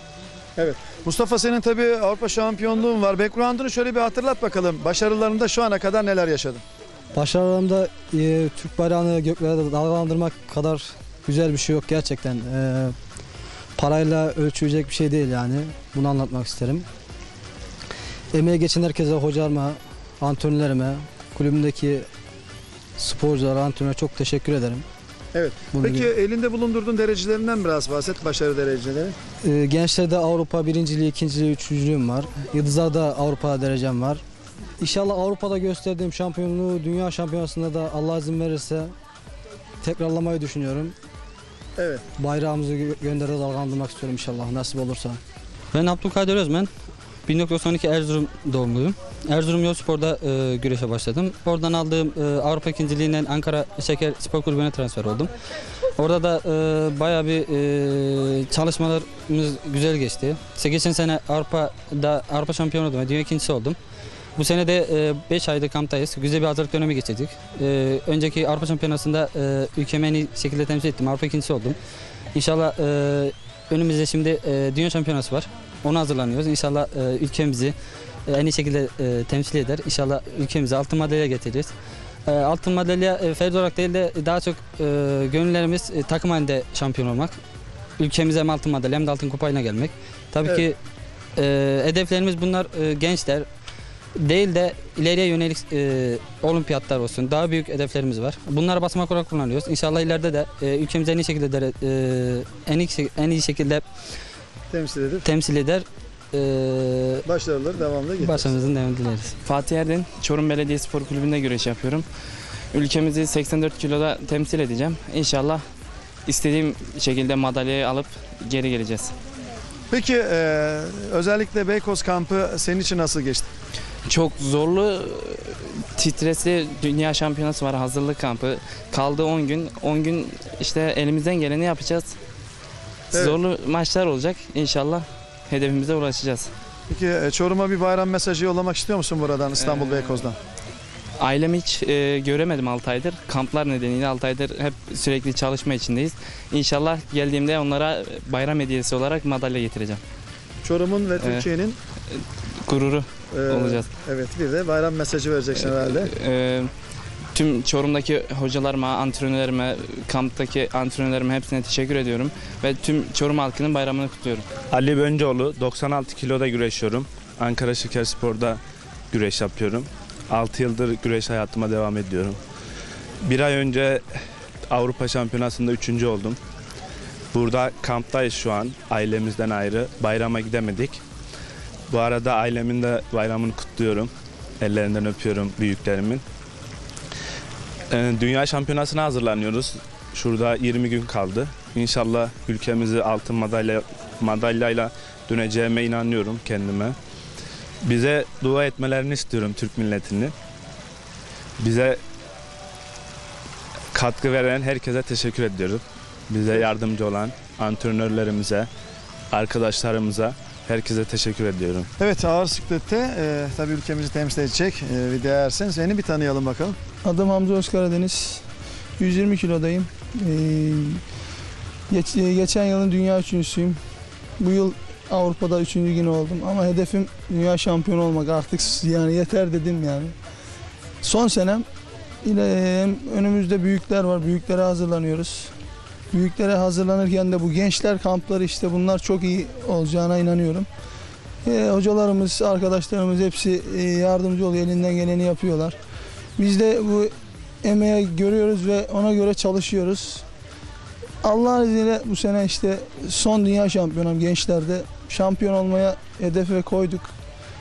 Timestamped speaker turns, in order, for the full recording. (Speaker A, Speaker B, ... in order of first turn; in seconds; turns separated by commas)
Speaker A: 0.6-6.6, Speaker B: 7.1-12.9, Speaker B: 13.8-16.9, Speaker B: 18.3-22.1, Speaker B: 23.0-24.9, Speaker A: 25.3-29.2, Speaker B: 29.4-34.2, Speaker B: 34.8-38.9, Speaker B: 39.8-40.9, Speaker A: 41.8-42.0, Speaker B: 42.2-45.2, Speaker C: 45.7-46.7, Speaker C: 47.2-55.3, Speaker C: 56.0-63.8, Speaker C: 64.3-71.8, Speaker C: 72.3-77.7, Speaker C: 78.3-81.7, Speaker C: 82.2-87.3, Speaker C: 88.0-90.8, Speaker C: 91.3-93.5, Speaker C: 94.2-103.8, Speaker A: 104.7-105.3, Speaker C: 105.2-107.2, Speaker A: 107.2-108.5, Speaker C: 108.2-109.3, Speaker D: 109.4-112.0, Speaker D: 112.7-115.6, Speaker D: 116.3-119.1, Speaker A: 119.9-123.5, Speaker D: 124.1-132.1, Speaker D: 133.1-136.5, Speaker A: 136.9-140.4, Speaker D: 139.5-140.3, Speaker D: 141.2-150.0, Speaker A: 150.6-151.8, Speaker D: 151.2-151.5, Speaker D: 152.1-153.9, Speaker A: 153.3-156.1, Speaker D: 155.5-156.7, Speaker D: 157.3-164.4, Speaker E: 164.7-168.6, Speaker E: 169.1-172.4, Speaker E: 173.2-174.0, Speaker E: 174.7-176.4, Speaker E: 177.3-181.0, Speaker E: 181.9-186.2, Speaker E: 187.9-196.9, Speaker E: 197.8-200.3, Speaker E: 201.6-202.0, Speaker E: 203.9-208.7, Speaker E: 209.3-211.9, Speaker A: 212.0-216.8, Speaker F: 217.0-218.4, Speaker F: 219.0-221.0, Speaker F: 221.9-223.8, Speaker F: 224.4-230.1, Speaker F: 231.0-231.7, Speaker F: 232.2-235.5, Speaker F: 236.1-240.7, Speaker F: 241.4-245.8, Speaker F: 246.4-250.2, Speaker F: 251.2-257.1